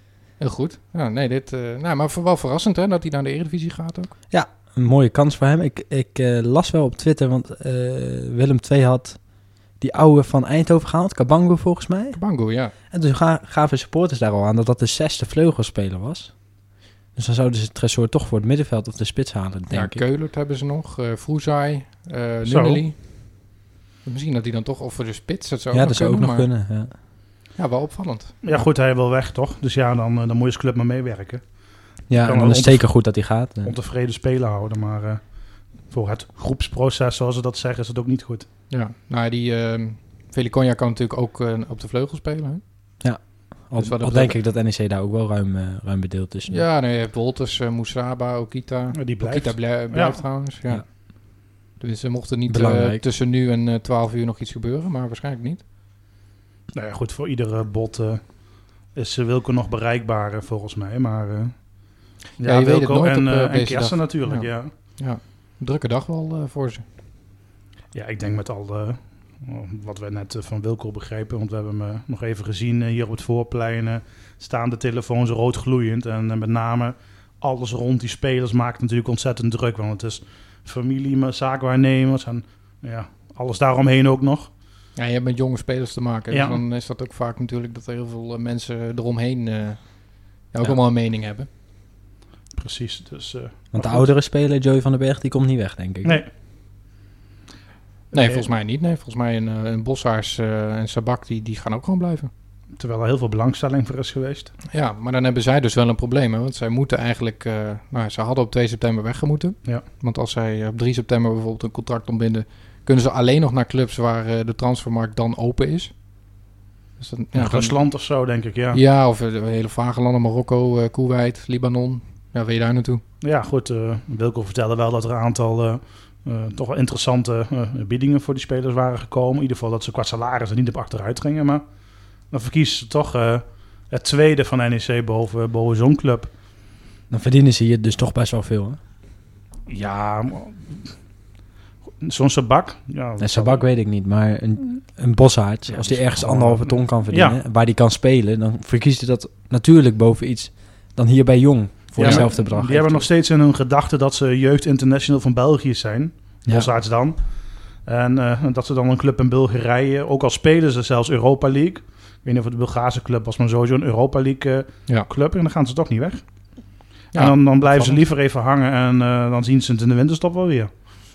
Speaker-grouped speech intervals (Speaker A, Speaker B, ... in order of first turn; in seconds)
Speaker A: 0.4-4.1, 12.1-12.7, 19.7-23.0, 24.0-26.5, 27.6-28.3, 38.7-42.6, 43.8-44.4, 46.5-55.6, 62.4-66.8, 85.0-91.5, 98.1-102.3, 104.7-115.9, 117.0-117.8, 118.7-123.0, 152.0-152.2, 167.1-168.0
Speaker B: 4.3-9.2, 9.8-12.2, 12.8-16.4, 17.1-20.0, 25.7-26.9, 32.1-33.8, 43.0-46.6, 52.5-53.0, 93.7-96.2, 137.1-138.8, 143.2-153.1
Speaker C: 22.4-22.8, 28.4-38.5, 48.9-50.2, 56.7-61.8, 62.4-64.7, 67.9-84.5, 86.3-86.6, 92.6-94.1, 98.1-98.4, 102.8-104.5, 117.3-118.8, 123.2-131.6, 132.3-136.3, 139.7-140.9, 142.0-143.7, 145.7-147.4, 151.9-166.5, 167.1-170.7